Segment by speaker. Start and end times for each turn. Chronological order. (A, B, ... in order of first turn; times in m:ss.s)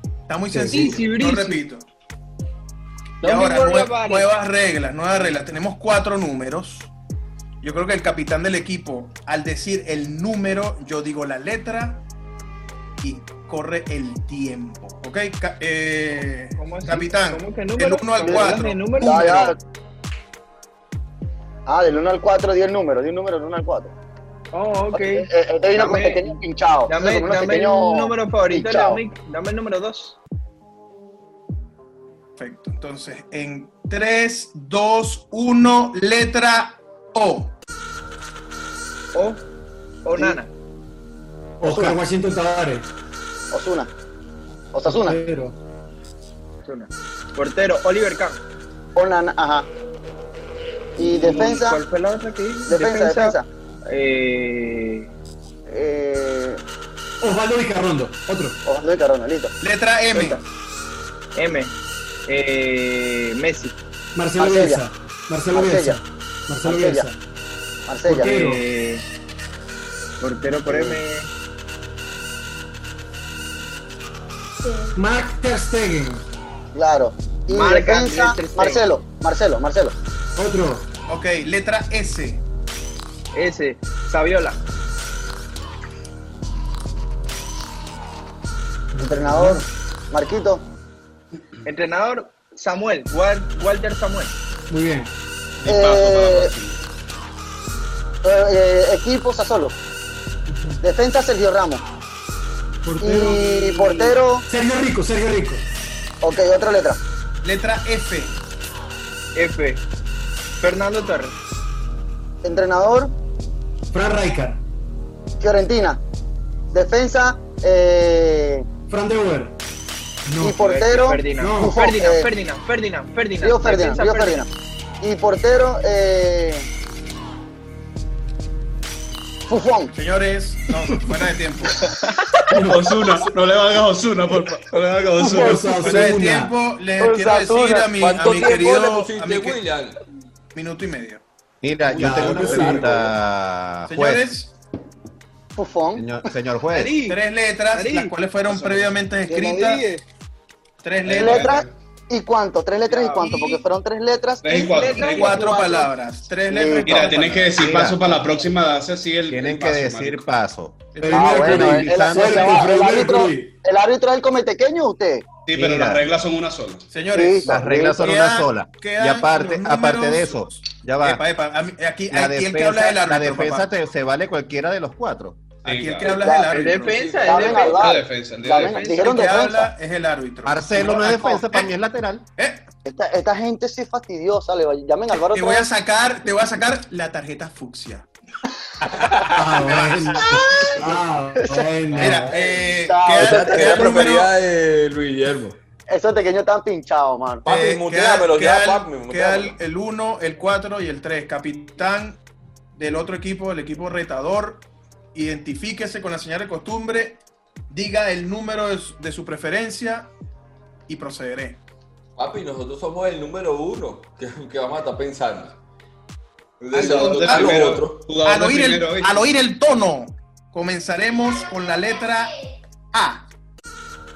0:00.3-0:01.9 A
0:00.5-0:01.0 B
0:00.7-0:01.6 C
0:03.2-0:04.3 C
0:03.2-0:06.9 A
0:07.6-0:12.0 A
0:13.0-0:19.5 A
0:16.6-0:19.5 C
0:18.2-0:19.6 D
0:21.6-0:23.9 D
0:24.5-0:26.3 C
0:24.9-0:29.0 D
0:26.9-0:30.2 C
0:32.4-0:37.5 A
0:39.1-0:39.4 C
0:40.0-0:40.5 C
0:41.6-0:42.9 B
0:41.6-0:42.0 D
0:43.5-0:43.9 D
0:44.7-0:45.2 D
0:44.8-0:45.6 B
0:46.6-0:48.4 C
0:49.0-0:49.7 D
0:51.0-0:51.8 D
0:51.0-0:55.1 C
0:52.7-0:53.5 D
0:55.7-0:56.6 D
0:57.2-0:58.6 B
0:58.6-0:59.5 D
0:59.6-1:00.4 A
1:01.4-1:01.7 C
1:02.3-1:03.7 C
1:04.1-1:07.2 B
1:04.4-1:04.8 D
1:05.5-1:06.0 D
1:06.6-1:07.1 D
1:07.9-1:08.3 D
1:08.0-1:08.6 B
1:08.2-1:09.0 C
1:10.2-1:11.3 C
1:10.7-1:11.0 D
1:14.9-1:16.2 B
1:16.7-1:20.0 D
1:17.5-1:18.9 C
1:20.4-1:20.9 B
1:21.1-1:22.4 A
1:23.3-1:24.6 C
1:28.9-1:29.6 B
1:29.0-1:30.6 D
1:31.6-1:34.3 C
1:34.7-1:35.1 B
1:35.6-1:36.8 E
1:35.6-1:36.5 D
1:38.2-1:39.7 D
1:40.5-1:40.8 B
1:40.8-1:41.8 D
1:42.8-1:45.6 B
1:43.0-1:44.4 D
1:46.2-1:47.0 D
1:47.4-1:48.4 A
1:49.3-1:49.8 C
1:50.6-1:51.3 C
1:52.4-1:53.1 D
1:53.9-1:54.6 B
1:55.4-1:56.0 D
1:56.7-1:58.6 D
1:58.9-1:59.6 B
2:00.2-2:00.6 B
2:00.4-2:02.3 D
2:00.5-2:04.4 C
2:01.4-2:01.8 B
2:03.4-2:04.5 D
2:05.0-2:06.7 D
2:09.5-2:09.9 D
2:09.9-2:11.8 A
2:12.5-2:12.8 B
2:12.6-2:16.0 E
2:15.2-2:16.5 B
2:15.4-2:19.6 A
2:17.0-2:18.0 D
2:18.0-2:20.0 F
2:20.5-2:21.2 A
2:21.6-2:24.2 G
2:21.9-2:22.8 B
2:22.1-2:23.1 C
2:23.9-2:24.5 A
2:25.5-2:26.1 D
2:25.9-2:26.9 G
2:26.7-2:27.2 C
2:27.0-2:29.9 A
2:27.7-2:28.1 C
2:28.5-2:28.9 E
2:29.3-2:29.8 D
2:29.6-2:30.0 C
2:30.8-2:31.6 A
2:31.0-2:31.7 E
2:31.1-2:35.4 D
2:32.9-2:33.6 C
2:34.4-2:35.6 E
2:34.6-2:35.9 C
2:34.9-2:37.5 A
2:36.5-2:37.1 D
2:36.8-2:40.3 E
2:37.6-2:38.2 G
2:39.3-2:42.7 G
2:41.0-2:43.5 B
2:41.1-2:45.2 D
2:45.4-2:46.8 E
2:45.5-2:46.0 G
2:46.9-2:53.7 A
2:47.1-2:48.0 D
2:47.4-2:51.2 G
2:52.1-2:55.4 G
2:55.6-2:57.6 A
2:55.6-2:56.2 E
2:56.0-2:56.7 D
2:56.5-2:59.2 C
2:57.2-2:59.7 D
2:57.3-2:58.9 E
2:58.9-3:01.7 A
3:00.4-3:02.2 G
3:02.4-3:02.7 A
3:02.8-3:05.7 D
3:05.2-3:08.1 A
3:08.9-3:10.7 A
3:09.3-3:12.3 B
3:10.6-3:14.2 D
3:11.9-3:14.3 A
3:12.0-3:12.3 E
3:13.2-3:15.6 F
3:15.9-3:17.5 D
3:17.4-3:19.6 F
3:17.5-3:22.2 A
3:22.7-3:30.1 A
3:30.9-3:31.6 A
3:32.2-3:35.6 F
3:36.6-3:38.1 F
3:36.7-3:39.3 E
3:36.7-3:42.4 A
3:42.9-3:43.2 A